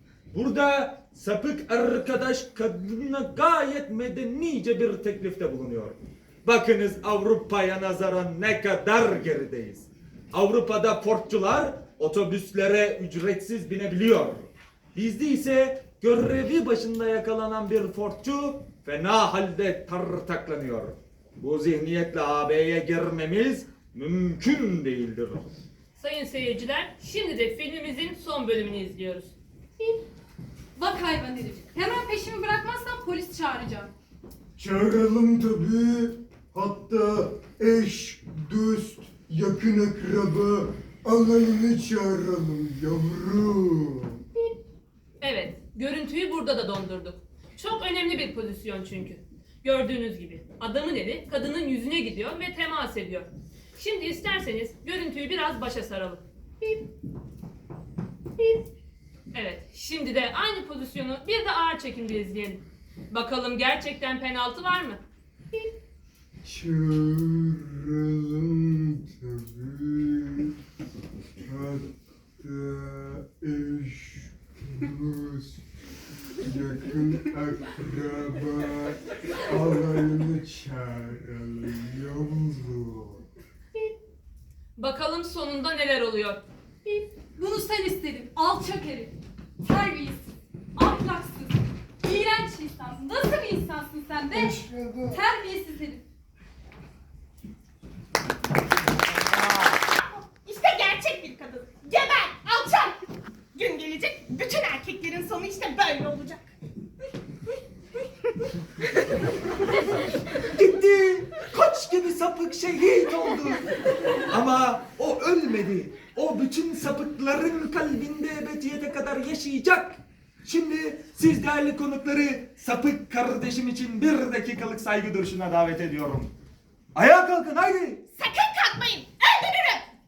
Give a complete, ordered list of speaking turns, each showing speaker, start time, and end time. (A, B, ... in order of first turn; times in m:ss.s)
0:00.3-0:25.5 A
0:26.0-0:29.3 B
0:30.8-0:33.9 C
0:34.6-0:44.2 D
0:45.2-0:56.8 B
0:59.3-1:05.0 B
1:06.4-1:10.5 D
1:11.4-1:15.6 D
1:16.4-1:23.2 D
1:24.8-1:26.4 B
1:26.8-1:36.0 C
1:34.3-1:35.2 D
1:40.0-1:43.0 E
1:43.5-1:46.4 E
1:50.5-2:06.3 A
2:06.9-2:08.0 A
2:08.2-2:09.9 E